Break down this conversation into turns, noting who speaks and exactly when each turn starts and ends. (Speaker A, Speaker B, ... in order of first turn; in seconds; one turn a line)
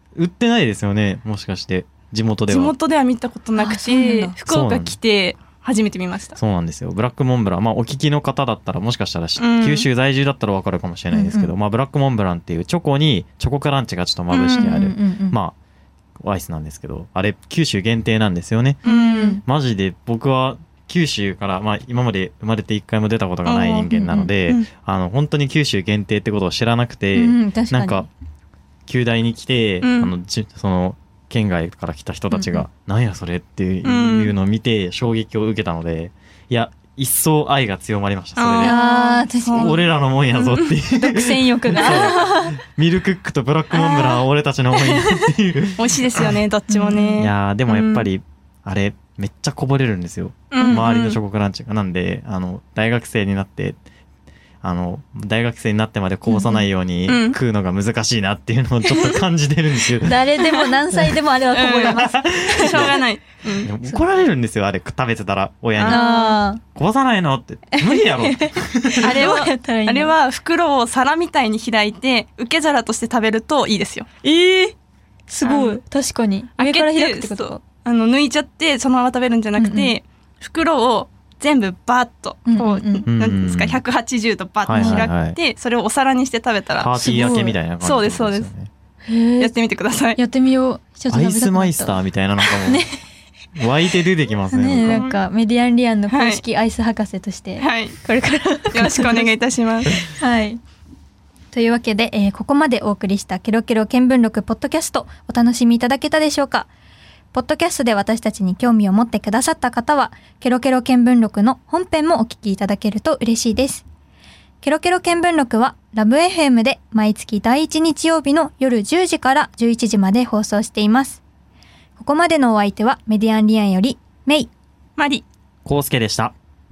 Speaker A: 0.1-2.8
Speaker B: 2.5-6.4
Speaker C: 3.6-4.4
Speaker A: 4.5-5.0
Speaker A: 6.4-15.6
Speaker B: 9.4-9.9
Speaker C: 11.1-11.5
Speaker B: 14.3-14.7
Speaker C: 14.6-15.4
Speaker A: 16.2-28.1
Speaker B: 18.8-19.4
Speaker C: 18.8-19.4
Speaker B: 23.4-23.9
Speaker C: 23.9-24.3
Speaker C: 27.1-28.1
Speaker A: 28.9-38.8
Speaker B: 29.8-30.1
Speaker C: 32.3-32.7
Speaker B: 33.8-34.3
Speaker B: 38.4-39.8
Speaker C: 38.6-39.9
Speaker A: 39.5-46.3
Speaker B: 40.3-40.7
Speaker C: 40.9-42.6
Speaker B: 41.8-42.2
Speaker B: 43.8-44.2
Speaker B: 45.8-48.1
Speaker C: 46.7-47.2
Speaker A: 47.1-53.8
Speaker B: 50.5-51.2
Speaker A: 54.6-60.2
Speaker C: 56.3-56.7
Speaker B: 57.1-57.4
Speaker C: 60.0-63.0
Speaker B: 61.5-63.7
Speaker A: 61.8-63.0
Speaker A: 63.6-66.2
Speaker B: 65.8-66.4
Speaker C: 65.8-66.6
Speaker A: 66.7-69.2
Speaker C: 67.7-70.2
Speaker B: 69.0-74.1
Speaker C: 74.2-74.7
Speaker C: 75.3-77.6
Speaker B: 75.4-75.8
Speaker B: 76.6-86.9
Speaker C: 79.6-80.0
Speaker C: 82.5-83.1
Speaker A: 83.1-83.8
Speaker A: 84.6-85.4
Speaker C: 84.7-85.1
Speaker A: 86.8-88.7
Speaker C: 87.0-87.6
Speaker B: 87.8-88.5
Speaker C: 89.0-89.5
Speaker B: 89.4-90.2
Speaker C: 90.2-93.0
Speaker A: 91.1-92.9
Speaker A: 93.6-95.1
Speaker C: 94.5-99.3
Speaker B: 94.8-95.2
Speaker B: 96.1-96.4
Speaker B: 97.6-98.0
Speaker B: 98.7-100.0
Speaker C: 100.0-100.6
Speaker C: 101.5-106.7
Speaker C: 107.3-113.8
Speaker C: 114.6-121.2
Speaker C: 122.0-124.5
Speaker B: 125.0-125.2
Speaker A: 125.7-126.3